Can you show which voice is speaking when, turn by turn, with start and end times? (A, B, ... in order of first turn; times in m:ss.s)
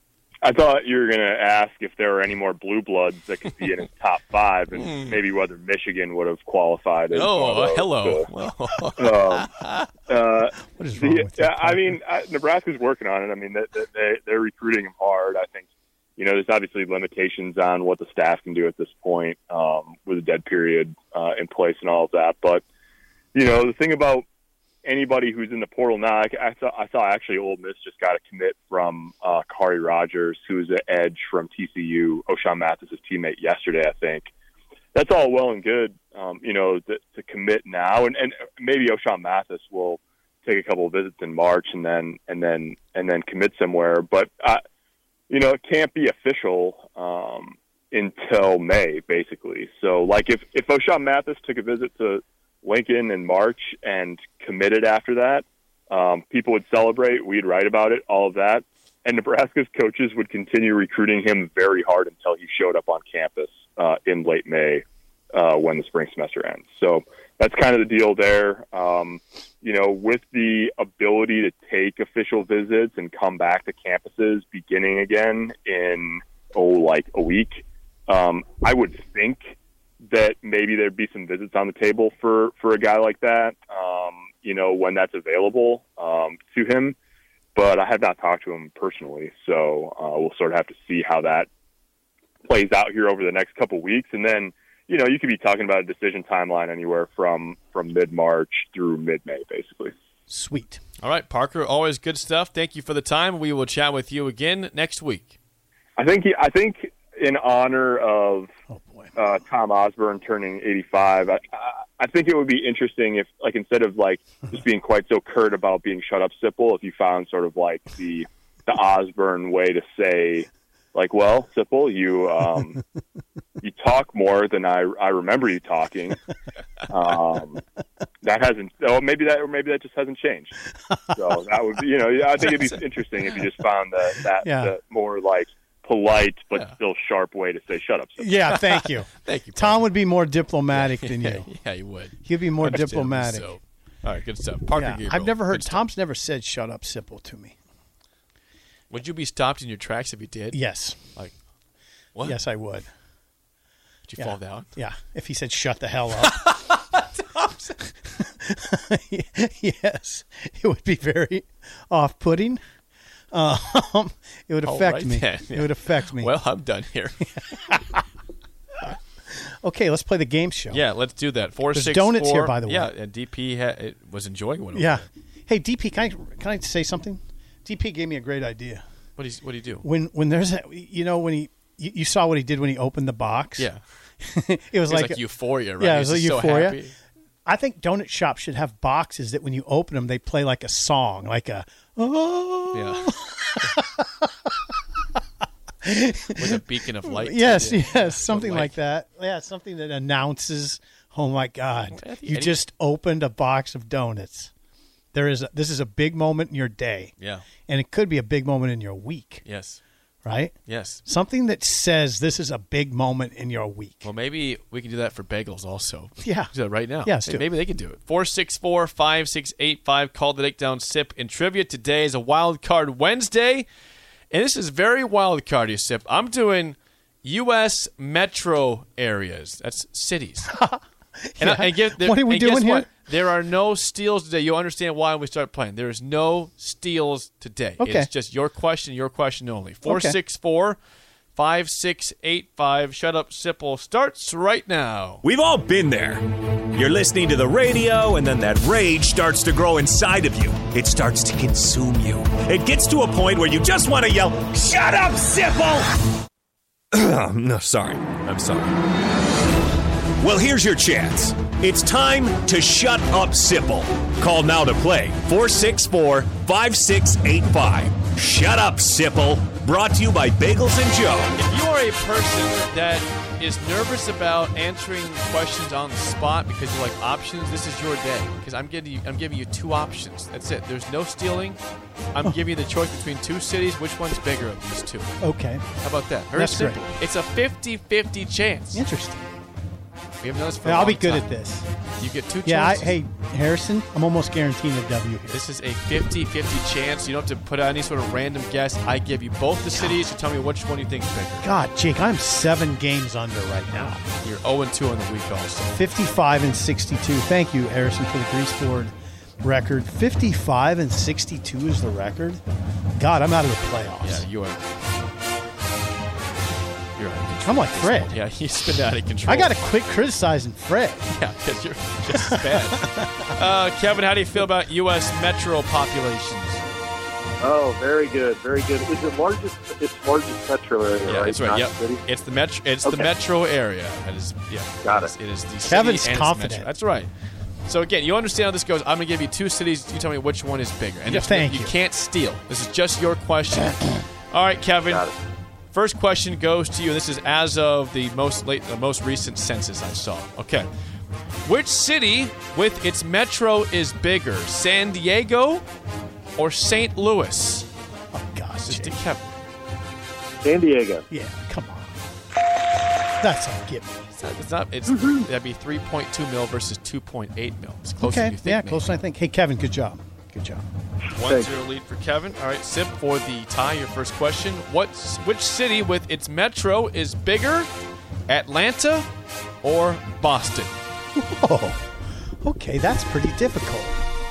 0:00.4-0:08.3 A
0:04.8-0:05.1 B
0:07.1-0:09.9 B
0:09.0-0:09.5 A
0:10.1-0:22.6 A
0:10.7-0:12.0 C
0:23.3-0:24.2 A
0:24.8-0:34.3 A
0:34.9-0:44.6 A
0:45.3-1:04.8 A
1:05.3-1:27.0 A
1:27.5-1:31.5 A
1:32.4-1:39.9 A
1:40.3-1:40.8 C
1:41.0-1:45.4 B
1:46.0-1:48.5 A
1:48.7-1:49.1 C
1:49.1-2:02.8 A
2:03.6-2:06.2 A
2:06.9-2:07.6 A
2:08.2-2:10.6 A
2:10.9-2:11.2 C
2:11.1-2:18.3 A
2:14.4-2:14.7 C
2:18.2-2:21.5 C
2:18.6-2:19.9 B
2:20.7-2:25.8 B
2:22.1-2:23.6 C
2:24.7-2:27.6 C
2:28.9-2:31.4 B
2:30.5-2:31.2 C
2:32.2-2:32.9 C
2:34.0-2:34.7 B
2:34.2-2:36.6 C
2:36.2-2:37.8 B
2:38.0-2:42.6 C
2:43.3-2:46.3 C
2:44.6-2:47.5 B
2:47.5-2:48.0 C
2:48.9-2:50.8 C
2:50.7-2:55.0 B
2:51.7-2:52.9 C
2:54.7-2:58.8 C
2:59.2-2:59.8 B
2:59.8-3:06.8 C
3:03.6-3:03.8 B
3:04.9-3:06.9 B
3:07.4-3:14.5 C
3:12.7-3:13.8 B
3:15.8-3:24.5 C
3:16.4-3:18.7 B
3:21.9-3:22.6 B
3:25.1-3:27.1 C
3:27.2-3:27.4 B
3:27.6-3:29.4 C
3:29.4-3:29.8 B
3:30.2-3:34.1 C
3:30.6-3:31.0 B
3:34.0-3:43.7 B
3:36.2-3:37.4 C
3:44.3-3:50.5 B
3:50.5-3:52.9 C
3:51.4-4:00.8 B
3:57.8-3:58.1 C
3:59.8-4:00.2 C
4:01.3-4:05.2 B
4:05.2-4:15.9 D
4:16.9-4:18.8 D
4:20.2-4:31.3 D
4:31.4-4:41.6 B
4:42.1-4:45.2 B
4:45.2-4:45.6 C
4:45.8-4:48.8 B
4:46.3-4:46.8 C
4:48.7-4:49.3 C
4:50.2-4:51.3 B
4:50.6-4:51.7 C
4:52.0-4:52.9 B
4:52.4-4:55.4 C
4:55.3-5:01.4 B
5:01.4-5:04.0 C
5:04.2-5:05.8 B
5:05.7-5:12.4 C
5:13.0-5:14.2 C
5:14.0-5:14.7 B
5:17.0-5:19.6 B
5:17.4-5:18.2 C
5:19.2-5:21.1 C
5:21.1-5:26.6 B
5:27.4-5:32.0 E
5:31.0-5:37.1 B
5:32.8-5:33.1 E
5:34.8-5:35.1 E
5:35.6-5:36.7 C
5:37.6-5:45.0 B
5:41.0-5:41.8 C
5:44.9-5:45.1 E
5:45.7-5:50.7 B
5:51.4-5:55.6 B
5:56.4-5:57.7 B
5:58.1-5:59.0 C
5:58.7-5:59.3 B
6:00.4-6:01.0 E
6:01.1-6:02.0 C
6:03.2-6:04.1 C
6:04.2-6:09.0 B
6:04.9-6:05.2 E
6:08.0-6:10.6 C
6:11.1-6:17.7 B
6:11.2-6:11.5 E
6:18.3-6:19.1 B
6:19.6-6:20.8 B
6:21.2-6:24.0 C